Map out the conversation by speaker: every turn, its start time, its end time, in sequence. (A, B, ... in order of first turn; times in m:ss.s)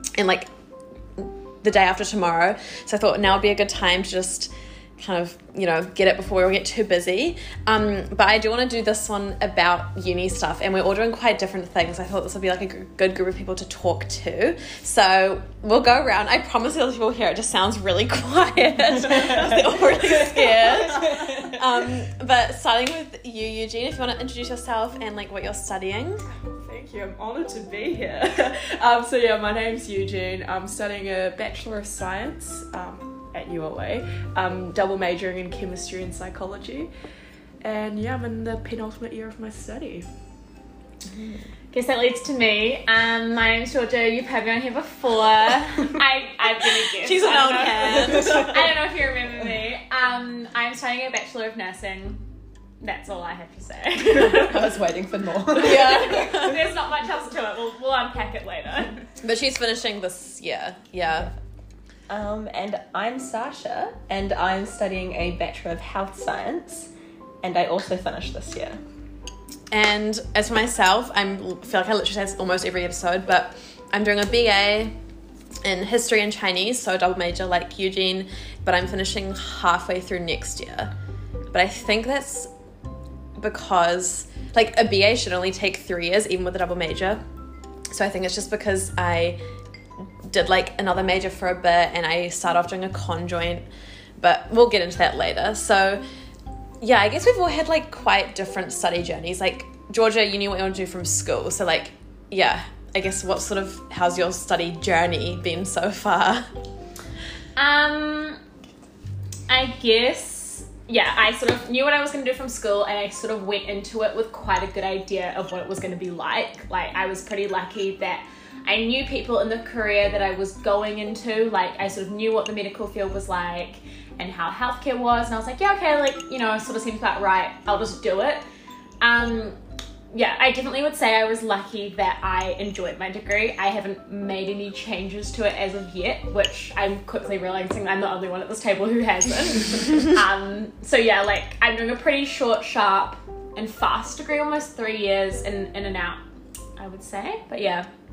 0:00.2-0:00.5 A
0:01.2-0:26.2 A
0:20.1-0:21.8 B
0:26.3-0:36.9 B
0:37.6-0:40.1 B
0:41.7-0:52.2 C
0:47.0-0:48.7 A
0:48.0-0:48.5 D
0:52.8-0:54.6 C
0:54.1-0:56.5 D
0:55.5-0:56.6 A
0:55.6-0:59.1 C
0:59.2-1:01.3 A
1:02.1-1:06.9 D
1:07.4-1:08.8 D
1:09.7-1:14.9 A
1:15.6-1:20.9 A
1:21.5-1:22.5 A
1:23.4-1:27.2 A
1:27.9-1:29.4 A
1:30.2-1:33.6 A
1:34.2-1:36.0 A
1:36.8-1:46.5 A
1:47.6-1:48.4 C
1:49.5-2:08.4 C
2:09.0-2:09.6 C
2:10.1-2:26.2 C
2:26.8-2:27.9 C